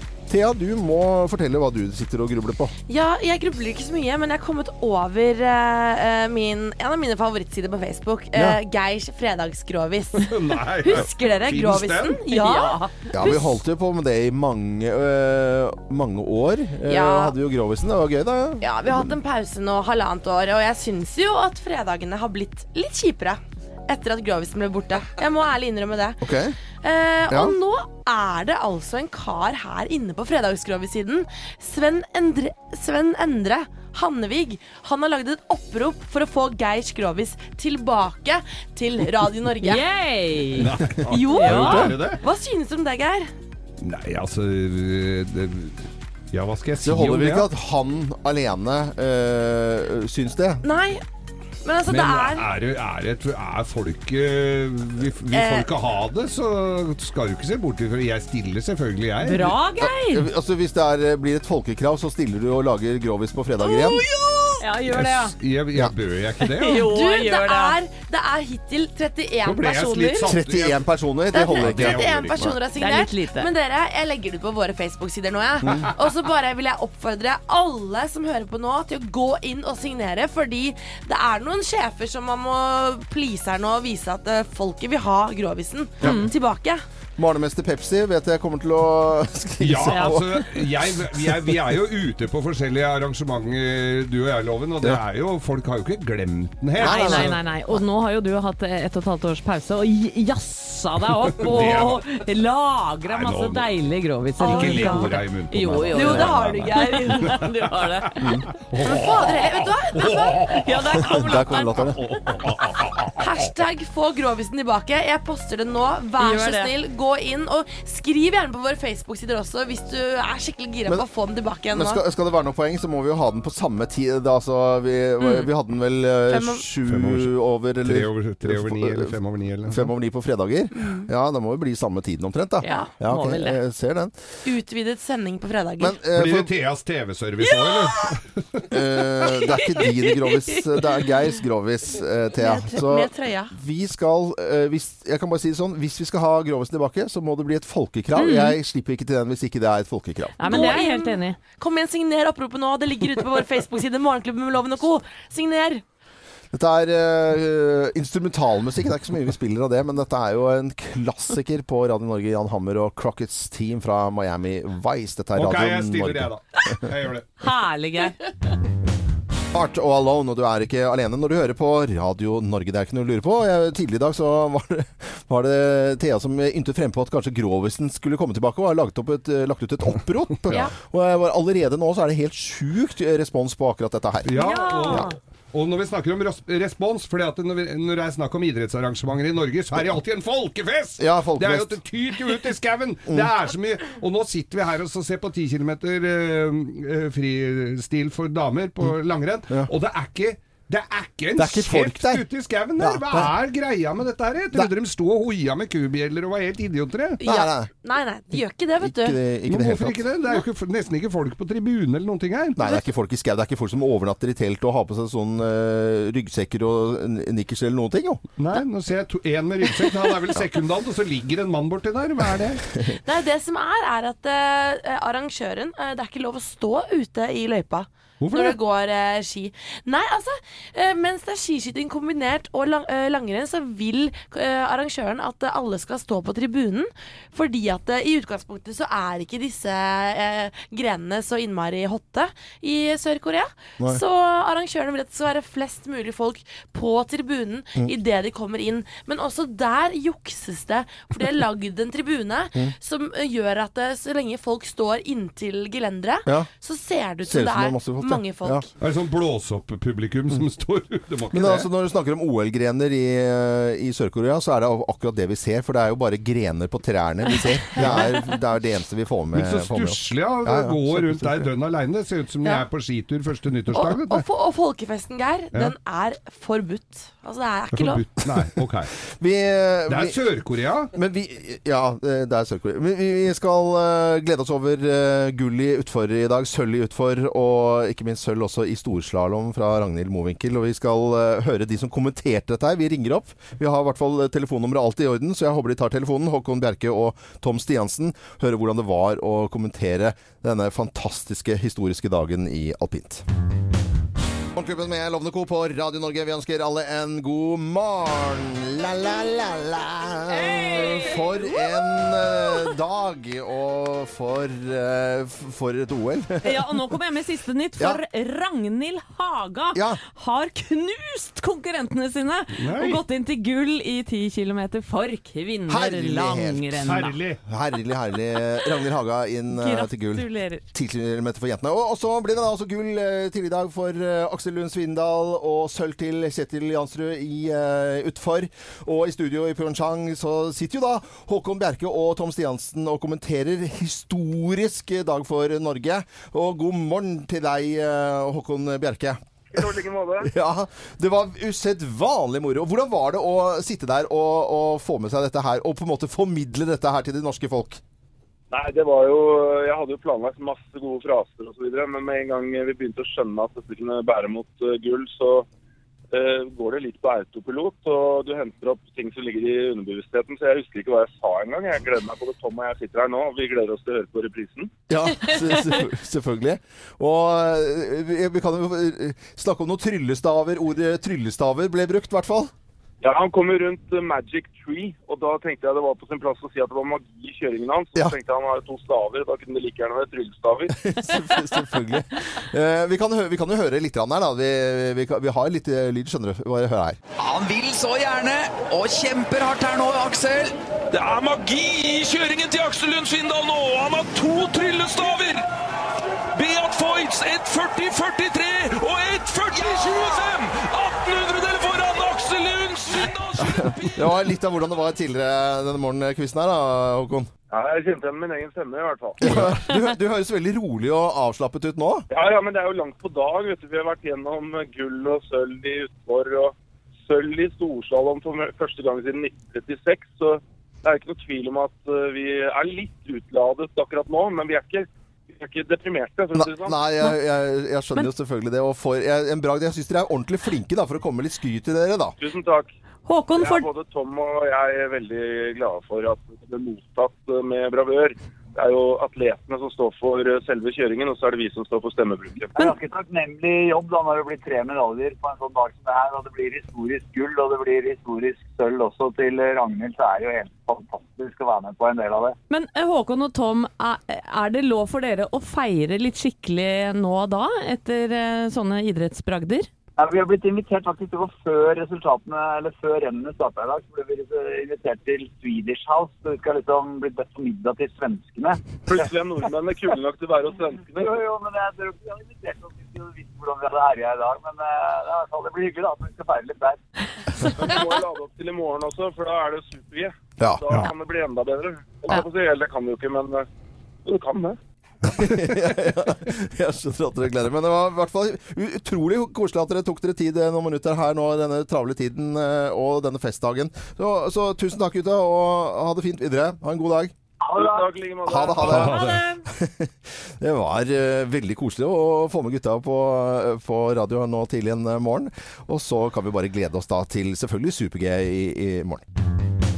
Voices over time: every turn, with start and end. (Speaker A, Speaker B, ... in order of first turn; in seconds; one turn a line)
Speaker A: 0.3-2.8
Speaker B: 2.9-13.6
Speaker A: 8.3-8.6
Speaker C: 10.2-12.2
Speaker D: 12.3-13.0
Speaker A: 13.1-19.2
Speaker B: 16.9-17.4
Speaker B: 18.6-26.2
Speaker A: 26.2-26.6
Speaker B: 26.8-39.8
Speaker A: 27.3-27.6
Speaker D: 39.6-40.7
Speaker C: 40.6-42.2
Speaker B: 41.1-43.3
Speaker D: 41.3-41.9
Speaker C: 43.8-47.5
Speaker A: 46.8-50.6
Speaker B: 50.6-51.0
Speaker B: 51.6-52.5
Speaker C: 51.9-59.6
Speaker B: 55.3-55.7
Speaker D: 59.2-60.3
Speaker A: 59.8-64.1
Speaker D: 64.6-65.3
Speaker C: 64.9-66.9
Speaker D: 66.6-67.8
Speaker B: 66.7-70.3
Speaker C: 69.4-72.5
Speaker A: 70.2-72.6
Speaker B: 71.3-86.8
Speaker D: 72.8-73.5
Speaker A: 75.6-75.9
Speaker A: 86.0-86.3
Speaker D: 86.0-86.3
Speaker A: 87.2-91.6
Speaker C: 89.6-97.4
Speaker D: 89.9-90.2
Speaker A: 96.8-97.8
Speaker D: 96.8-108.2
Speaker C: 101.3-102.0
Speaker C: 103.1-103.7
Speaker C: 104.4-113.1
Speaker B: 104.4-105.2
Speaker B: 105.9-107.4
Speaker A: 108.2-108.5
Speaker B: 108.8-110.7
Speaker D: 110.5-112.0
Speaker A: 111.1-112.0
Speaker B: 113.2-122.0
Speaker D: 116.2-116.7
Speaker A: 121.7-134.1
Speaker B: 126.3-126.7
Speaker C: 126.8-129.9
Speaker B: 130.8-131.1
Speaker D: 132.6-133.6
Speaker B: 134.4-136.0
Speaker A: 135.8-136.5
Speaker C: 136.1-138.7
Speaker B: 137.5-137.8
Speaker A: 138.7-150.8
Speaker B: 142.4-143.5
Speaker D: 148.2-148.6
Speaker D: 150.4-151.4
Speaker B: 150.4-155.8
Speaker A: 156.5-166.3
Speaker C: 165.4-167.4
Speaker D: 167.4-168.2
Speaker A: 169.5-184.3
Speaker C: 184.2-207.2
Speaker D: 184.4-185.1
Speaker A: 191.0-191.7
Speaker A: 201.4-202.2
Speaker A: 202.8-203.3
Speaker A: 207.2-207.7
Speaker B: 207.2-209.2
Speaker A: 208.3-210.1
Speaker C: 209.5-212.6
Speaker A: 212.6-218.2
Speaker C: 218.4-222.7
Speaker B: 223.0-258.7
Speaker C: 228.2-228.6
Speaker A: 257.2-258.6
Speaker C: 258.8-261.7
Speaker A: 261.3-271.5
Speaker B: 267.4-268.1
Speaker C: 267.8-268.1
Speaker C: 269.3-274.2
Speaker B: 273.7-278.1
Speaker C: 277.7-278.9
Speaker A: 279.1-280.2
Speaker C: 279.9-280.9
Speaker A: 280.9-303.2
Speaker A: 304.6-316.7
Speaker D: 310.3-311.7
Speaker D: 316.4-327.2
Speaker A: 319.7-320.0
Speaker C: 322.6-323.0
Speaker A: 325.7-349.6
Speaker C: 326.8-327.4
Speaker D: 329.5-330.6
Speaker E: 349.5-350.3
Speaker A: 350.2-357.8
Speaker E: 358.5-365.5
Speaker E: 366.1-374.7
Speaker A: 374.9-382.5
Speaker E: 383.0-390.8
Speaker A: 390.8-397.0
Speaker F: 397.2-400.6
Speaker G: 400.9-405.5
Speaker G: 406.3-414.1
Speaker A: 413.4-417.3
Speaker E: 417.5-419.2
Speaker A: 419.2-422.1
Speaker C: 419.2-419.5
Speaker E: 422.1-436.8
Speaker A: 436.4-442.2
Speaker E: 442.2-442.7
Speaker D: 443.1-443.7
Speaker E: 443.4-452.6
Speaker H: 452.6-462.4
Speaker D: 462.5-469.7
Speaker H: 470.0-479.1
Speaker E: 478.9-481.2
Speaker H: 480.9-486.8
Speaker E: 487.4-493.5
Speaker A: 490.4-490.8
Speaker E: 494.1-494.6
Speaker A: 495.0-507.1
Speaker E: 507.4-509.0
Speaker A: 508.3-519.0
Speaker C: 508.6-509.2